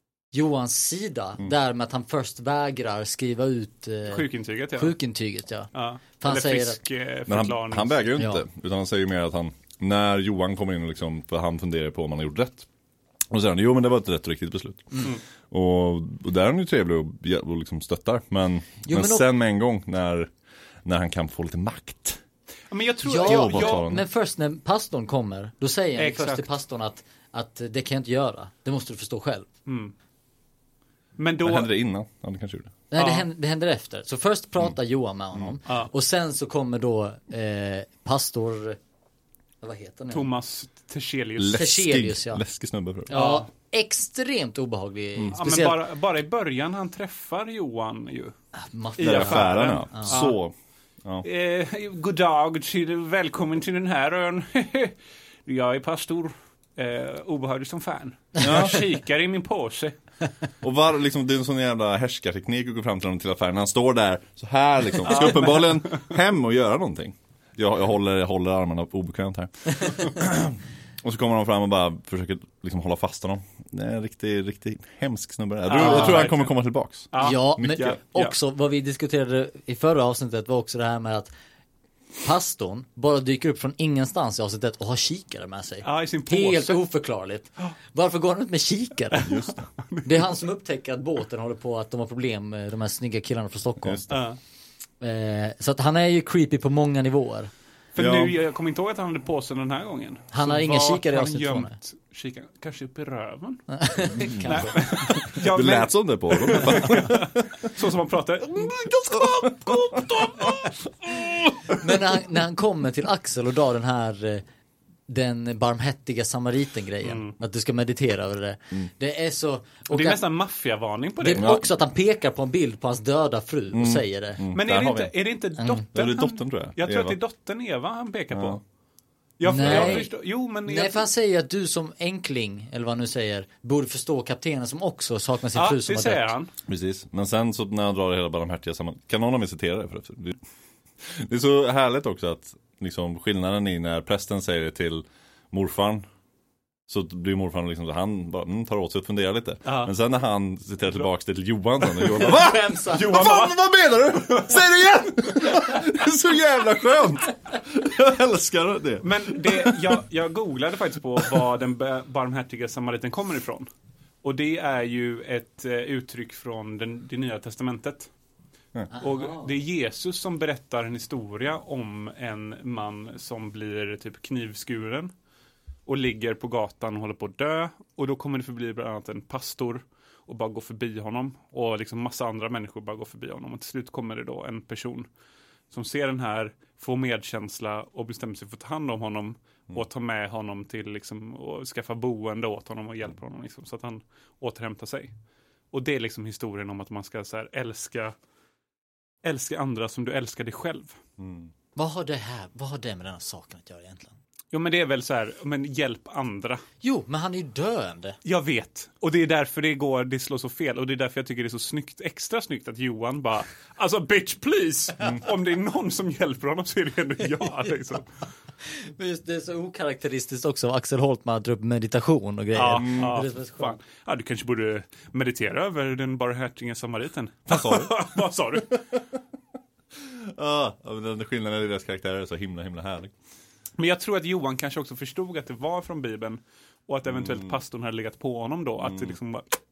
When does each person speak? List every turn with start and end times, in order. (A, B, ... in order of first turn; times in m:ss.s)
0:00.3-0:06.8 A
0:04.1-0:05.0 B
0:05.7-0:08.0 B
0:07.3-0:12.7 C
0:08.2-0:08.4 A
0:13.3-0:20.3 C
0:18.8-0:19.2 A
0:20.8-0:22.2 C
0:22.7-0:23.8 B
0:23.0-0:29.5 A
0:23.2-0:24.0 C
0:26.0-0:26.4 B
0:29.6-0:29.9 B
0:31.2-0:31.7 B
0:31.4-0:32.7 C
0:32.9-0:38.8 A
0:33.0-0:33.2 B
0:39.6-0:40.3 A
0:40.1-0:41.6 B
0:41.4-0:43.1 C
0:41.5-0:42.4 A
0:43.1-0:45.8 A
0:43.1-0:43.5 B
0:45.4-0:48.3 B
0:48.6-0:50.2 A
0:49.0-0:50.4 B
0:49.0-0:51.2 C
0:51.2-0:59.9 B
0:58.4-0:58.8 C
1:00.6-1:18.0 C
1:05.0-1:05.9 B
1:15.7-1:16.5 B
1:15.7-1:16.3 A
1:17.1-1:18.3 B
1:17.2-1:21.3 A
1:22.2-1:29.4 A
1:25.8-1:26.8 B
1:29.2-1:30.3 B
1:29.2-1:29.6 C
1:30.0-1:34.0 A
1:33.8-1:34.2 C
1:34.1-1:34.4 B
1:35.0-1:37.5 A
1:37.9-1:43.6 B
1:38.0-1:38.3 C
1:40.3-1:41.7 A
1:43.7-1:45.2 A
1:44.1-1:47.7 C
1:44.4-1:51.3 B
1:48.6-1:51.7 C
1:51.8-1:54.4 A
1:55.1-2:00.2 A
1:57.0-1:57.3 B
1:59.9-2:01.5 B
2:01.2-2:04.4 A
2:01.3-2:01.7 C
2:03.7-2:05.1 C
2:04.5-2:08.6 B
2:05.6-2:05.8 A
2:05.9-2:07.2 C
2:08.3-2:08.6 C
2:09.4-2:11.0 B
2:09.4-2:10.1 A
2:09.6-2:10.0 C
2:10.6-2:16.3 A
2:15.5-2:16.5 B
2:16.7-2:20.4 C
2:21.0-2:26.0 C
2:26.9-2:40.0 C
2:29.6-2:29.9 B
2:32.2-2:33.2 A
2:33.0-2:33.5 B
2:39.0-2:43.7 B
2:44.2-2:48.1 B
2:48.9-2:49.5 A
2:49.0-2:55.1 B
2:55.8-3:05.1 B
3:05.7-3:15.1 B
3:15.7-3:18.1 B
3:19.2-3:21.0 B
3:21.2-3:21.5 C
3:21.8-3:24.2 A
3:24.5-3:26.6 B
3:26.8-3:28.2 A
3:28.2-3:38.1 B
3:38.6-3:43.8 A
3:42.5-3:48.8 B
3:42.8-3:43.2 C
3:47.5-3:47.9 C
3:49.9-3:53.1 C
3:53.8-3:59.5 B
3:57.1-3:57.6 C
3:58.8-3:59.2 C